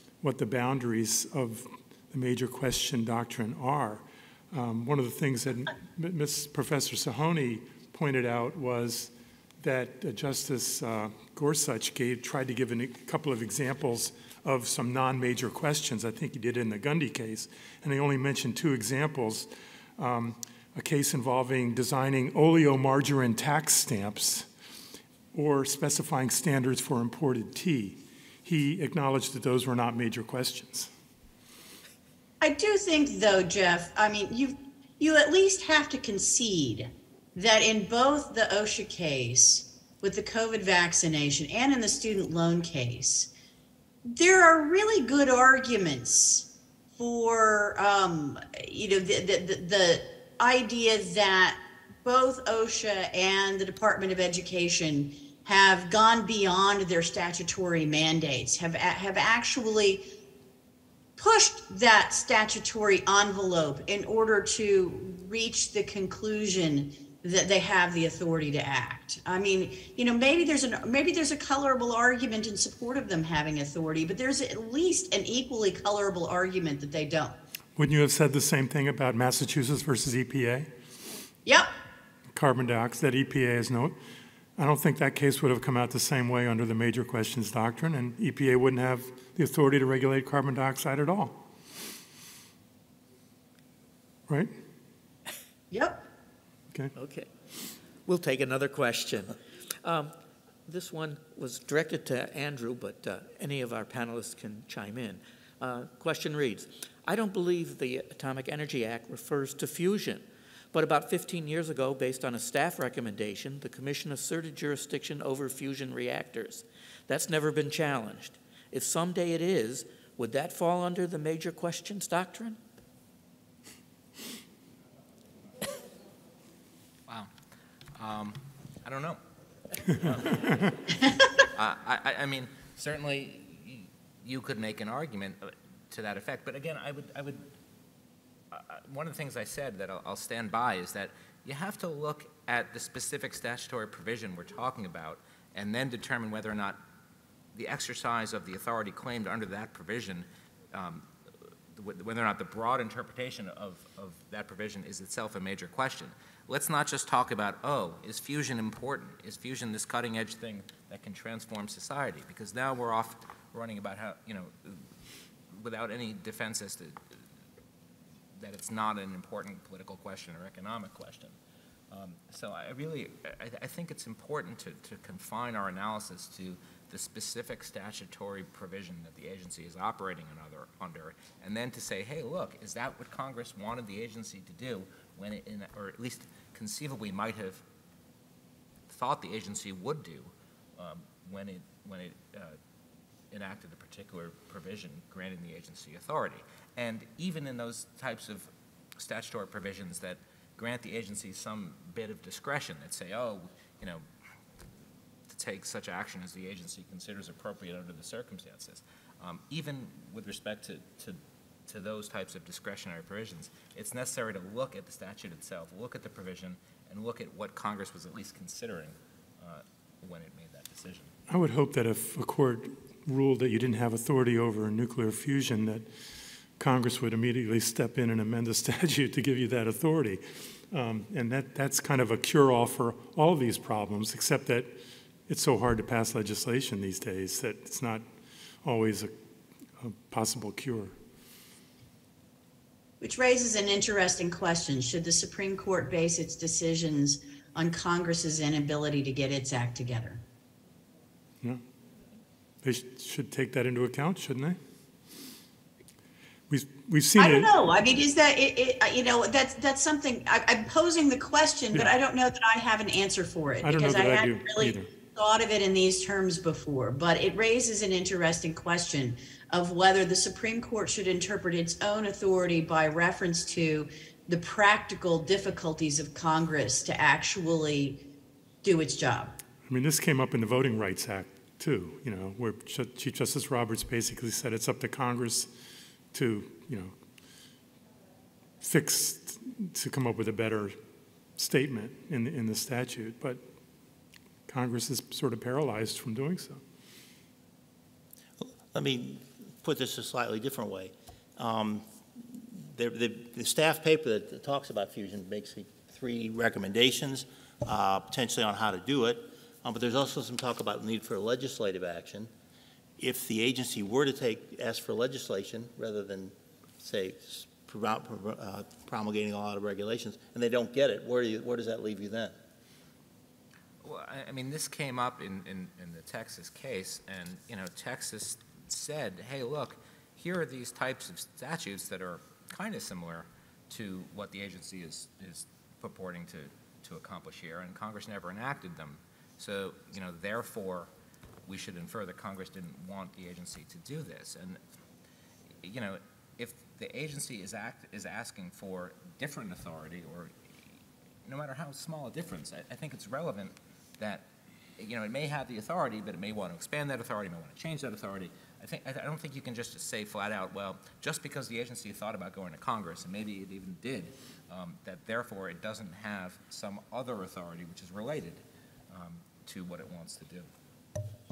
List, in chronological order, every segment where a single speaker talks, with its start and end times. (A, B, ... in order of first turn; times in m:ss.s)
0:00.2-0:24.5 A
0:25.3-0:30.9 A
0:32.4-0:43.3 B
0:44.1-1:00.0 B
1:01.2-1:17.4 B
1:17.8-1:20.7 A
1:22.3-1:24.0 A
1:24.6-1:31.4 A
1:35.7-1:36.0 B
1:36.9-1:37.3 C
1:38.0-1:40.1 C
1:40.6-2:02.6 C
2:07.9-2:09.2 D
2:09.9-2:17.5 D
2:18.5-2:26.8 D
2:27.5-2:31.1 D
2:31.7-2:44.9 D
2:45.5-2:47.0 D
2:48.4-2:51.4 D
2:51.9-3:07.6 D
3:08.9-3:12.6 D
3:13.3-3:24.0 D
3:25.3-3:41.1 D
3:41.3-3:45.9 A
3:46.6-3:58.0 A
3:58.6-3:59.1 A
3:59.8-4:01.0 A
4:03.0-4:10.2 B
4:12.6-4:14.6 A
4:16.5-4:17.5 A
4:17.2-4:38.0 B
4:23.6-4:24.9 A
4:38.6-4:39.3 B
4:39.7-4:45.5 A
4:46.1-4:46.9 A
4:48.6-4:50.8 A
4:51.4-4:53.4 A
4:54.5-4:56.6 A
4:58.4-5:12.3 E
5:13.0-5:22.3 E
5:23.8-5:40.9 D
5:41.4-5:44.6 D
5:45.6-5:50.3 D
5:51.2-5:54.2 D
5:54.8-6:10.5 D